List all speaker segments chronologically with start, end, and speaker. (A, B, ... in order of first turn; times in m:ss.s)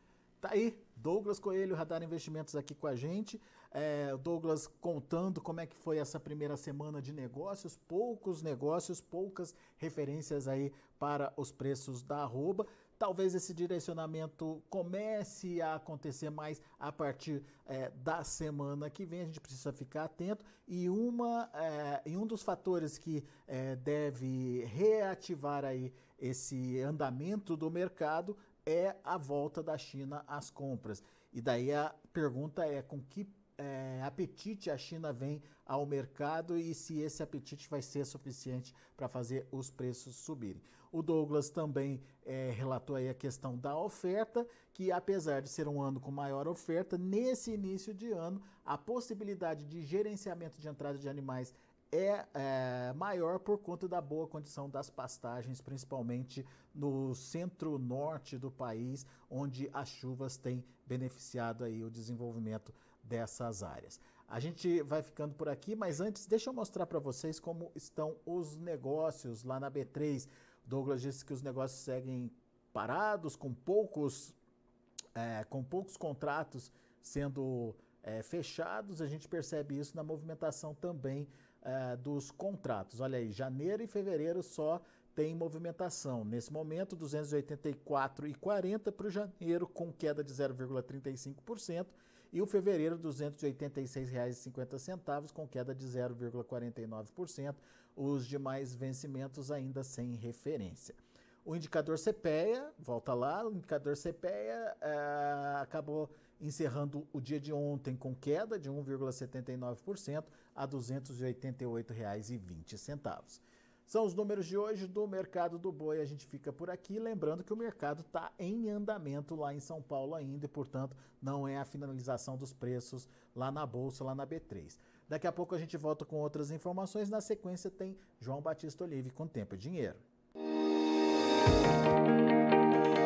0:00.4-1:14.4 A
1:15.2-2:10.0 A